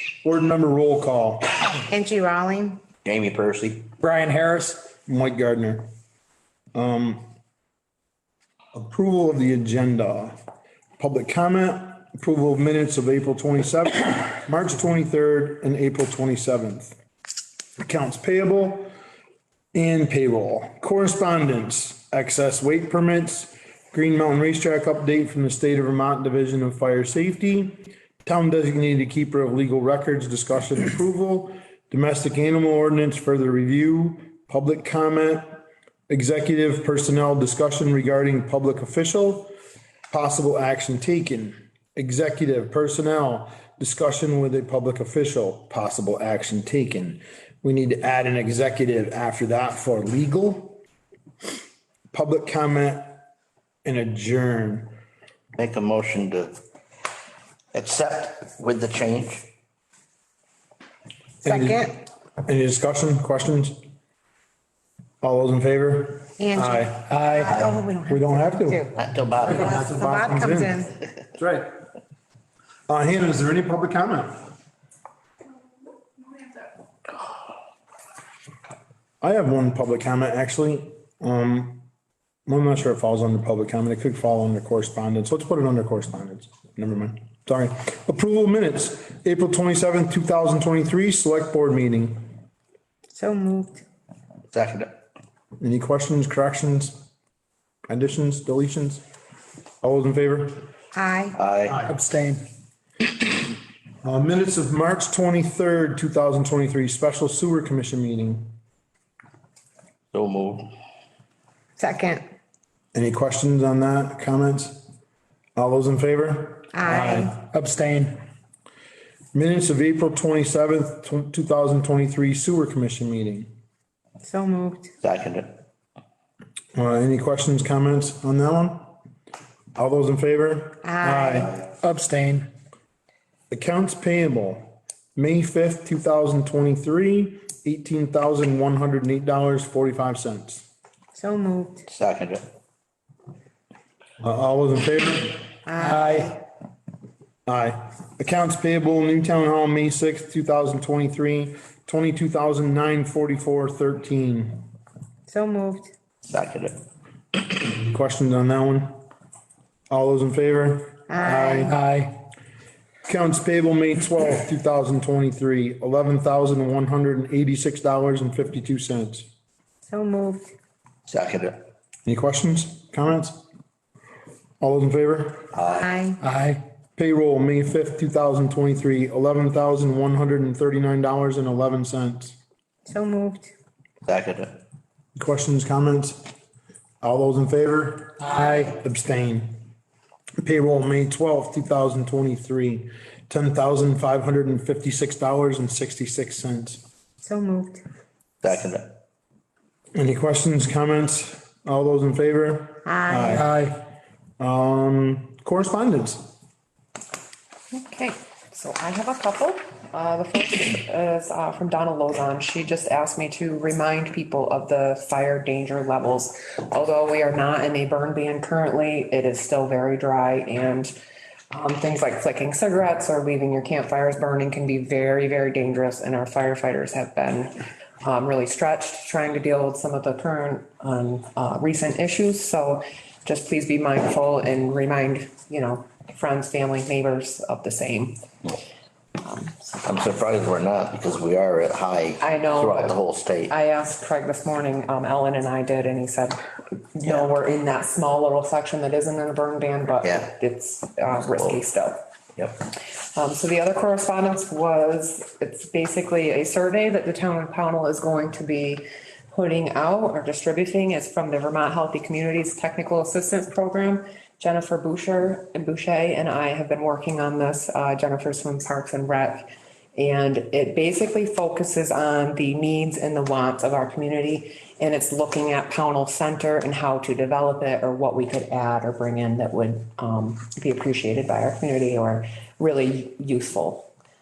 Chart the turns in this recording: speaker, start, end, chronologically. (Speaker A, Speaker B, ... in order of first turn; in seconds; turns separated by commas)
Speaker A: 0.2-1.6, Speaker B: 1.9-2.8, Speaker C: 3.0-3.9, Speaker D: 4.0-4.8, Speaker A: 5.1-5.9, Speaker A: 6.7-7.2, Speaker A: 8.7-10.4, Speaker A: 11.0-17.0, Speaker A: 17.8-18.9, Speaker A: 19.7-39.5, Speaker A: 40.1-50.8, Speaker A: 52.1-53.2, Speaker A: 53.8-54.9, Speaker C: 55.5-56.6, Speaker C: 57.7-59.5, Speaker A: 61.4-63.8, Speaker B: 61.4-62.0, Speaker A: 65.2-67.2, Speaker B: 66.4-68.9, Speaker D: 67.1-67.6, Speaker A: 68.1-70.8, Speaker C: 69.0-69.8, Speaker B: 69.7-70.9, Speaker A: 71.4-71.7, Speaker A: 72.9-74.4, Speaker A: 79.2-81.8, Speaker A: 82.5-92.3, Speaker B: 93.1-93.8, Speaker C: 94.5-94.9, Speaker A: 95.6-97.0, Speaker A: 97.9-99.0, Speaker A: 99.8-100.6, Speaker B: 100.9-101.3, Speaker C: 101.3-101.8, Speaker D: 101.8-102.4, Speaker A: 104.0-108.5, Speaker C: 110.1-110.7, Speaker B: 111.8-112.2, Speaker A: 112.9-114.9, Speaker A: 115.5-117.2, Speaker B: 116.7-117.3, Speaker D: 116.8-118.2, Speaker A: 119.3-123.5, Speaker B: 124.2-124.9, Speaker C: 125.0-125.5, Speaker A: 126.7-128.9, Speaker A: 129.8-131.5, Speaker B: 130.8-131.5, Speaker D: 131.8-132.5, Speaker A: 133.5-140.7, Speaker B: 141.1-141.8, Speaker C: 141.9-142.4, Speaker A: 144.2-145.4, Speaker B: 145.7-146.4, Speaker D: 145.8-146.4, Speaker A: 147.4-154.6, Speaker B: 155.3-155.9, Speaker C: 156.3-156.8, Speaker A: 157.6-159.0, Speaker A: 159.9-161.8, Speaker B: 161.1-161.7, Speaker D: 161.7-162.1, Speaker A: 163.1-169.3, Speaker B: 169.9-170.5, Speaker C: 171.1-171.6, Speaker A: 172.1-173.4, Speaker A: 174.6-175.5, Speaker C: 175.5-175.9, Speaker B: 175.7-176.2, Speaker D: 176.2-176.6, Speaker A: 176.9-182.4, Speaker B: 182.9-183.5, Speaker C: 184.1-184.6, Speaker A: 185.2-186.2, Speaker A: 187.0-189.6, Speaker D: 188.2-188.7, Speaker A: 190.4-196.8, Speaker B: 197.2-197.8, Speaker C: 198.4-199.0, Speaker A: 199.9-203.6, Speaker B: 202.8-203.4, Speaker D: 203.3-203.7, Speaker A: 204.4-206.3, Speaker E: 207.7-220.9, Speaker E: 221.5-238.2, Speaker E: 239.2-239.9, Speaker C: 239.8-243.5, Speaker E: 242.2-243.0, Speaker E: 243.5-246.4, Speaker E: 246.9-252.0, Speaker C: 250.0-250.3, Speaker C: 252.4-252.7, Speaker E: 253.0-283.9